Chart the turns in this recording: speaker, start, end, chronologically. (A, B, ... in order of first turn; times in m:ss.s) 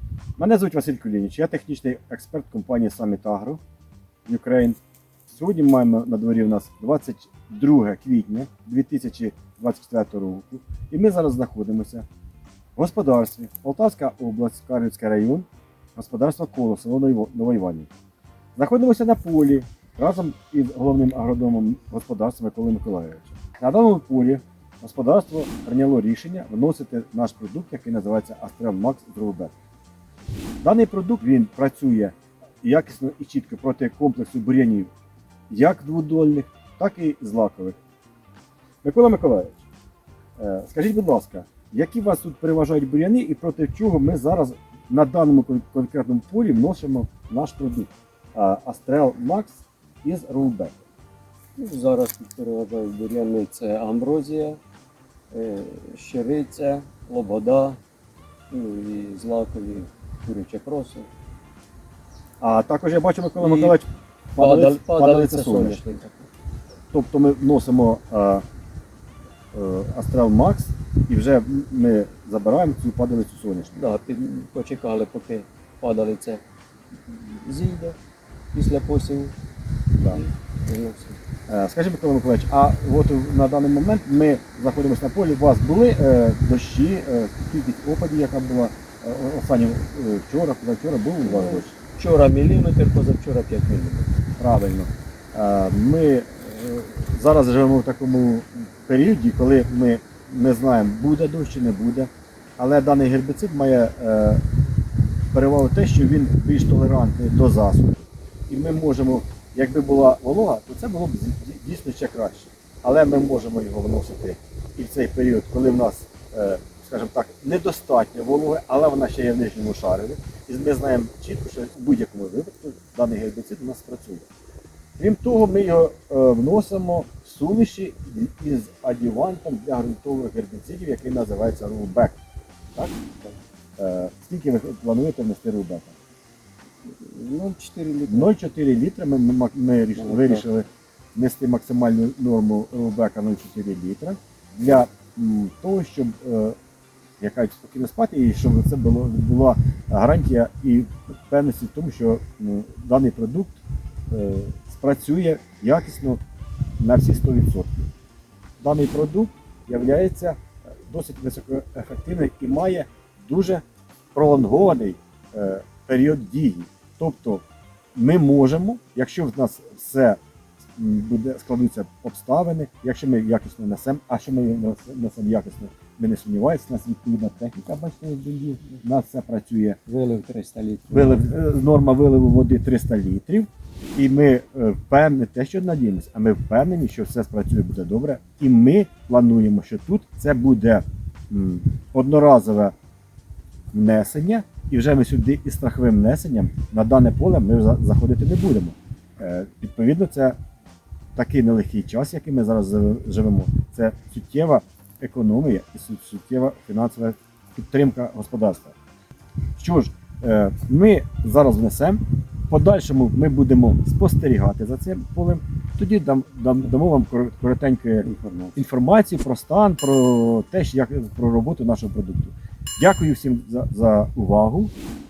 0:00.4-0:03.6 A
0:04.2-0:12.0 A
0:12.8-0:17.9 A
0:18.6-0:29.5 A
0:30.6-0:34.9 A
0:35.5-0:37.8 A
0:38.8-0:39.6 A
0:40.4-0:50.8 A
0:51.6-0:54.6 B
0:55.3-0:57.8 B
0:58.5-1:01.1 B
1:02.4-1:05.8 A
1:03.4-1:03.8 B
1:04.4-1:06.3 B
1:06.9-1:08.4 A
1:09.5-1:13.8 A
1:13.8-1:16.4 B
1:17.1-1:18.0 B
1:18.5-1:19.4 B
1:19.9-1:20.2 A
1:20.1-1:21.2 B
1:21.5-1:31.7 A
1:31.2-1:34.1 B
1:34.4-1:44.4 A
1:45.3-2:04.3 A
2:05.0-2:12.2 A
2:12.8-2:13.2 A
2:13.8-2:16.0 A
2:16.9-2:18.3 B
2:18.1-2:26.6 A
2:20.0-2:20.4 B
2:27.2-2:36.2 A
2:36.8-2:37.9 A
2:38.6-2:43.6 A
2:44.1-2:47.4 A
2:47.9-2:59.8 A
2:59.9-3:01.3 B
3:00.9-3:12.7 A
3:13.7-3:20.4 A
3:21.2-3:28.8 A
3:29.6-3:44.7 A
3:38.0-3:38.6 B